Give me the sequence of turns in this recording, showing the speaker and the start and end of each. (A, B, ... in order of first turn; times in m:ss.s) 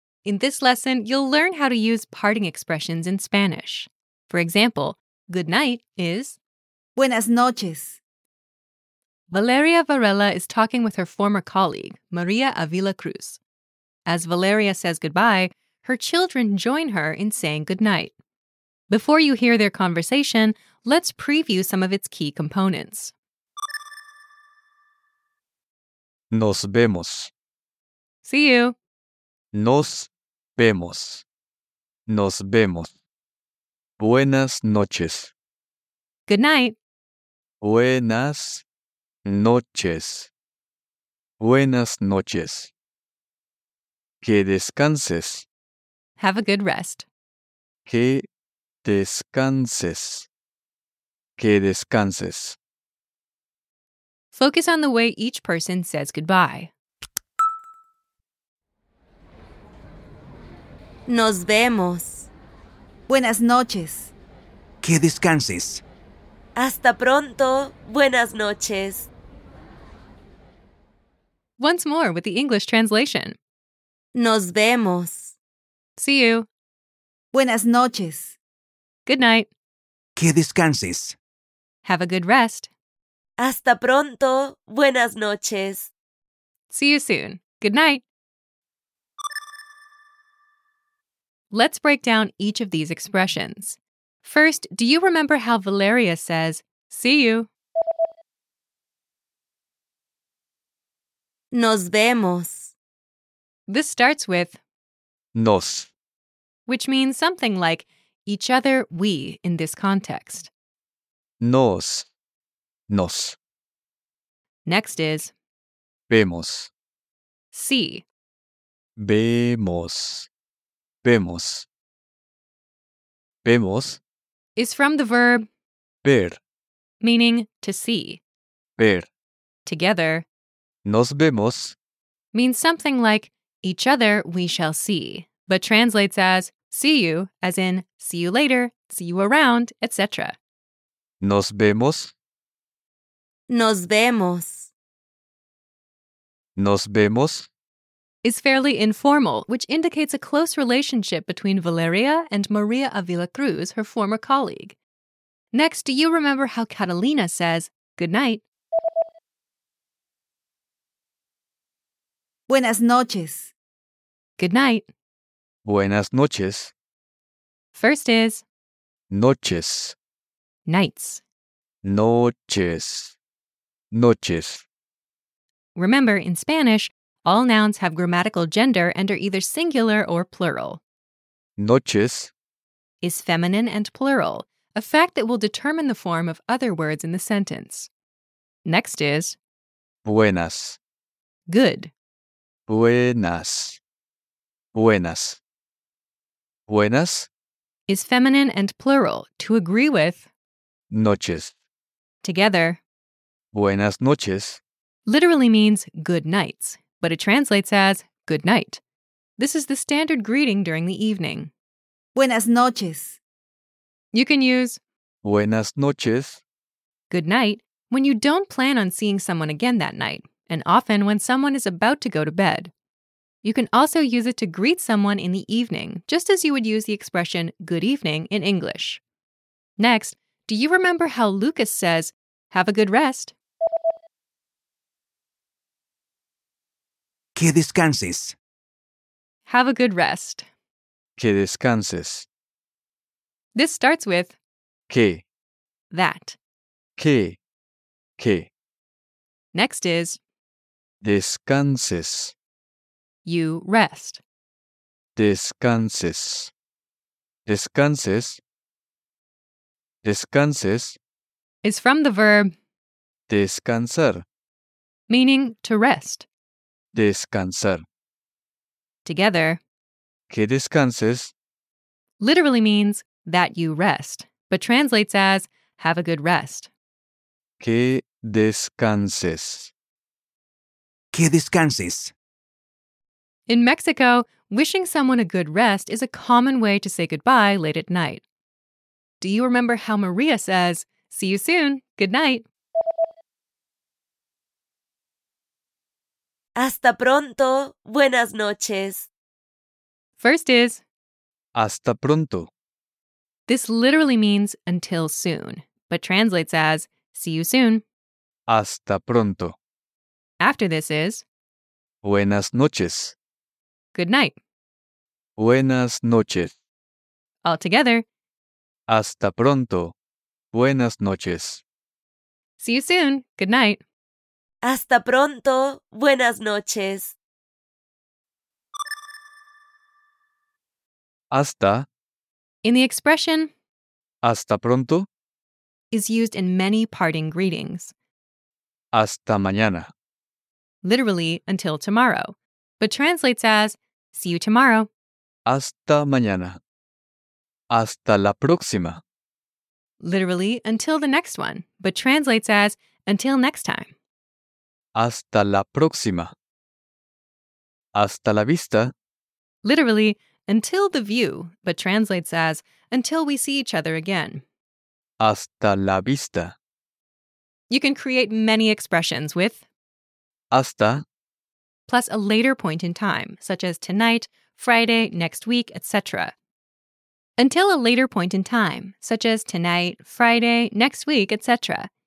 0:00.2-0:06.4 A
0:07.0-0:08.0 B
0:09.3-0:13.4 A
0:14.1-0:18.1 A
0:18.9-0:23.1 A
0:26.3-0:27.3 C
0:28.2-0:28.7 A
0:29.5-0:31.2 C
0:32.1-0:32.9 C
0:34.0-0:35.3 C
0:36.3-0:36.8 A
0:37.6-0:38.6 C
0:39.2-0:40.3 C
0:41.4-0:42.7 C
0:44.2-0:45.5 C
0:46.2-0:47.0 A
0:47.8-0:48.2 C
0:48.8-0:50.3 C
0:51.4-0:52.6 C
0:54.3-0:56.7 A
1:01.1-1:02.3 D
1:03.1-1:04.1 B
1:04.8-1:05.8 E
1:06.6-1:09.1 D
1:11.6-1:13.4 A
1:14.1-1:15.4 D
1:16.0-1:16.5 A
1:17.3-1:18.4 B
1:19.0-1:19.5 A
1:20.2-1:21.2 E
1:21.8-1:22.7 A
1:23.4-1:25.9 D
1:26.7-1:28.0 A
1:31.5-1:37.5 A
1:41.5-1:42.7 D
1:43.7-1:44.6 A
1:45.3-1:45.9 C
1:46.7-1:50.5 A
1:51.4-1:52.1 C
1:52.9-1:53.4 C
1:54.6-1:55.3 A
1:56.1-1:56.7 C
1:57.5-1:58.0 A
1:59.0-2:00.3 C
2:01.0-2:01.7 C
2:03.4-2:04.0 C
2:04.6-2:05.4 A
2:06.0-2:06.4 C
2:07.0-2:08.2 A
2:08.8-2:09.1 C
2:09.6-2:10.2 A
2:10.8-2:11.8 C
2:12.3-2:20.4 A
2:21.2-2:22.1 C
2:23.5-2:24.7 D
2:26.6-2:27.5 C
2:28.2-2:34.8 A
2:35.5-2:38.4 A
2:42.5-2:43.5 B
2:44.4-2:44.9 A
2:45.6-2:46.7 C
2:47.7-2:48.4 A
2:49.1-2:49.9 C
2:50.6-2:51.2 A
2:51.8-2:53.2 C
2:53.9-2:54.6 C
2:55.8-3:00.8 A
3:01.6-3:02.3 C
3:03.0-3:07.9 A
3:08.6-3:09.4 A
3:10.0-3:10.8 C
3:11.5-3:11.9 A
3:12.7-3:13.8 C
3:14.7-3:15.4 C
3:16.7-3:17.3 C
3:17.9-3:20.2 A
3:20.9-3:21.5 C
3:22.2-3:22.8 A
3:23.5-3:24.6 C
3:25.0-3:28.8 A
3:29.4-3:31.5 A
3:32.1-3:33.2 B
3:34.1-3:34.8 A
3:35.2-3:36.4 C
3:37.1-3:42.7 A
3:43.4-3:49.0 A
3:49.8-3:53.3 A
3:57.4-3:58.4 E
3:59.4-4:00.4 A
4:01.2-4:02.3 C
4:03.5-4:04.4 A
4:04.9-4:05.2 C
4:05.9-4:06.4 A
4:07.0-4:07.4 C
4:08.2-4:08.5 C
4:09.5-4:10.2 A
4:11.0-4:12.3 C
4:13.2-4:14.2 A
4:15.2-4:16.5 C
4:17.4-4:18.4 C
4:20.0-4:21.0 C
4:21.6-4:22.5 A
4:23.3-4:24.2 C
4:25.1-4:26.2 A
4:26.9-4:27.8 C
4:29.0-4:29.6 A
4:30.3-4:31.3 C
4:32.2-4:36.7 A
4:37.6-4:39.7 C
4:41.1-4:42.1 E
4:43.5-4:48.2 A
4:49.2-4:52.4 A
4:56.6-4:59.1 D
5:00.2-5:00.8 A
5:01.5-5:02.5 C
5:03.5-5:07.8 A
5:08.5-5:09.5 C
5:10.4-5:11.2 A
5:12.0-5:13.2 C
5:13.9-5:14.3 A
5:15.4-5:16.5 C
5:17.4-5:18.0 A
5:18.9-5:19.9 C
5:20.5-5:21.6 C
5:22.6-5:23.8 A
5:24.6-5:27.2 D
5:31.3-5:31.9 C
5:32.6-5:33.5 A
5:34.2-5:35.1 C
5:35.9-5:37.9 A
5:38.9-5:39.9 C
5:40.8-5:44.9 A
5:45.4-5:46.6 C
5:47.7-5:49.0 C
5:50.0-5:53.9 A
5:54.9-5:56.3 C
5:57.9-5:58.9 C
5:59.6-6:04.4 A
6:05.2-6:06.6 C
6:07.7-6:09.6 A
6:10.5-6:11.0 C
6:11.9-6:16.3 A
6:17.4-6:21.9 A